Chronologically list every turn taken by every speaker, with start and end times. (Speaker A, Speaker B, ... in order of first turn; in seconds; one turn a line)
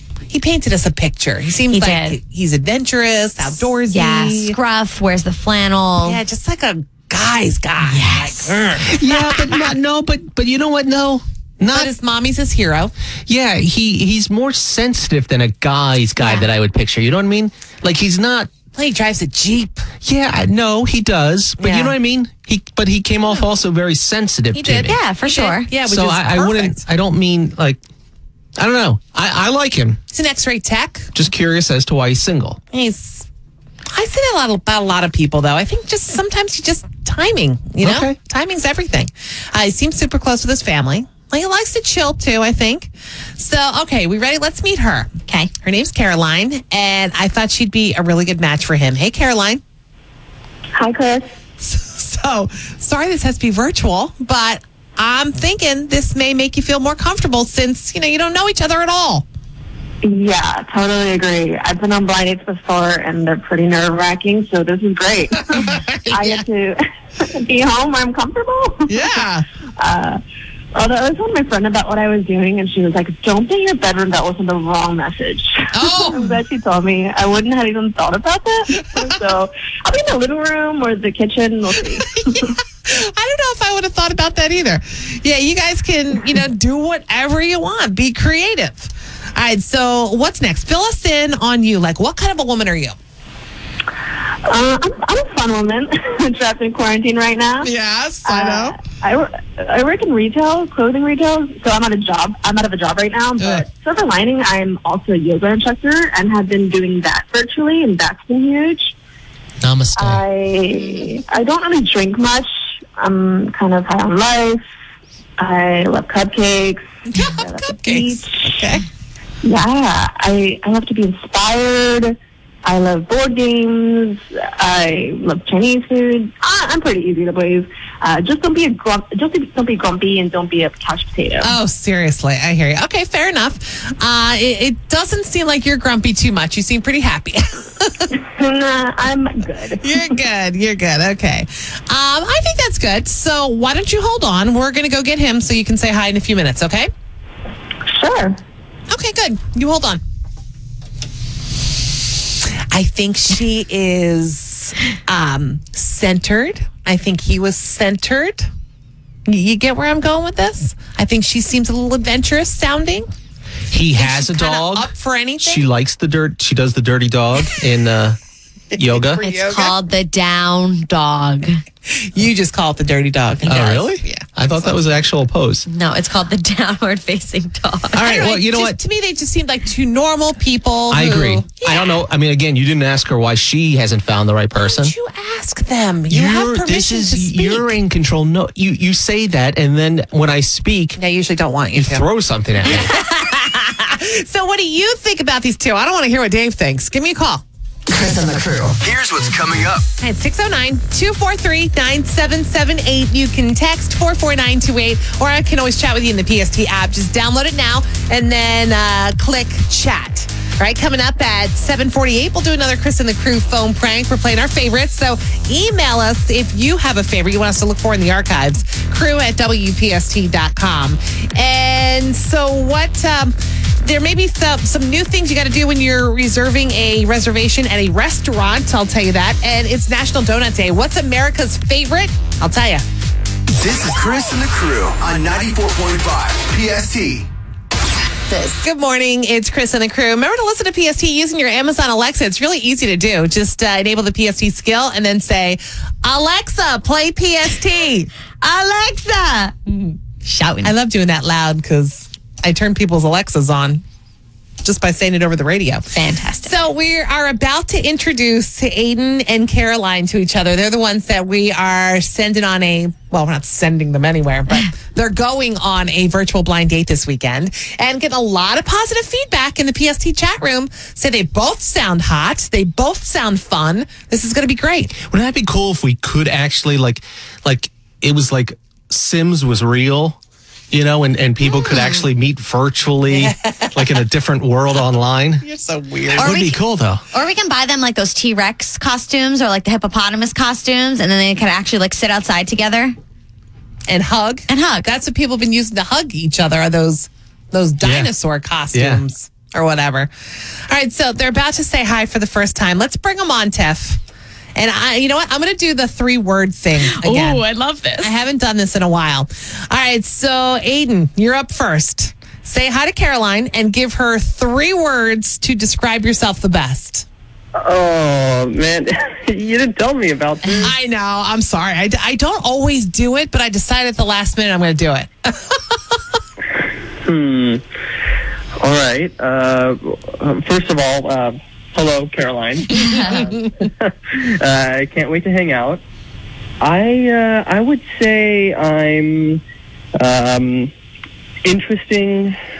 Speaker A: 0.3-4.6
Speaker B: 1.7-2.2
Speaker B: 3.9-6.2
Speaker A: 6.0-9.2
Speaker B: 7.8-8.6
Speaker C: 8.8-11.9
Speaker A: 11.7-12.9
Speaker C: 13.3-18.5
Speaker B: 16.2-16.4
Speaker A: 18.8-19.9
Speaker C: 20.0-25.0
Speaker A: 21.6-21.9
Speaker A: 24.5-26.8
Speaker B: 24.8-25.7
Speaker C: 25.8-27.8
Speaker C: 28.6-30.0
Speaker A: 30.1-31.1
Speaker C: 31.1-32.6
Speaker A: 32.7-33.2
Speaker A: 33.9-49.6
Speaker C: 37.8-38.1
Speaker D: 50.8-51.3
Speaker A: 51.6-59.2
Speaker D: 60.0-69.2
Speaker A: 65.5-66.4
Speaker A: 68.9-69.4
Speaker D: 69.8-70.2
Speaker D: 70.7-82.5
Speaker A: 75.7-76.3
Speaker A: 82.2-92.9
Speaker D: 94.5-97.7
Speaker A: 97.6-98.8
Speaker D: 98.2-108.9
Speaker C: 109.6-110.2
Speaker D: 110.0-114.6
Speaker D: 115.4-118.7
Speaker A: 117.1-118.8
Speaker D: 119.4-131.5
Speaker A: 131.4-138.1
Speaker D: 138.1-140.1
Speaker A: 139.8-146.9
Speaker D: 147.9-148.4
Speaker A: 148.9-150.0
Speaker A: 152.7-158.5
Speaker A: 159.2-163.1
Speaker C: 163.7-164.9
Speaker A: 163.9-165.7
Speaker C: 165.4-168.2
Speaker A: 168.7-169.8
Speaker C: 168.8-169.2
Speaker B: 169.2-171.6
Speaker A: 171.9-174.7
Speaker B: 173.4-173.8
Speaker C: 173.4-175.7
Speaker B: 175.7-178.1
Speaker C: 177.9-178.8
Speaker A: 177.9-181.9
Speaker C: 180.9-184.9
Speaker A: 184.6-187.8
Speaker C: 186.1-191.0
Speaker A: 191.0-192.0
Speaker C: 191.7-192.9
Speaker A: 192.7-197.4
Speaker E: 197.9-199.8
Speaker A: 200.0-232.8
Speaker E: 233.6-237.3
Speaker A: 238.6-248.1
Speaker B: 248.4-249.7
Speaker B: 250.2-250.7
Speaker A: 250.6-253.8
Speaker A: 254.6-255.9
Speaker B: 255.9-256.5
Speaker A: 256.4-274.9
Speaker C: 275.1-280.2
Speaker C: 280.7-285.4
Speaker B: 281.4-282.0
Speaker A: 283.1-283.9
Speaker A: 285.4-286.4
Speaker C: 286.1-287.0
Speaker B: 286.2-286.6
Speaker B: 287.1-292.9
Speaker A: 293.9-300.1
Speaker B: 294.5-294.9
Speaker C: 297.8-298.1
Speaker C: 298.7-299.0
Speaker A: 300.7-304.0
Speaker A: 304.6-307.4
Speaker B: 306.8-308.1
Speaker A: 308.0-317.1
Speaker F: 317.6-320.7
Speaker A: 320.6-325.7
Speaker F: 327.0-327.6
Speaker F: 328.6-335.8
Speaker F: 336.6-339.4
Speaker F: 340.0-340.7
Speaker F: 341.4-342.4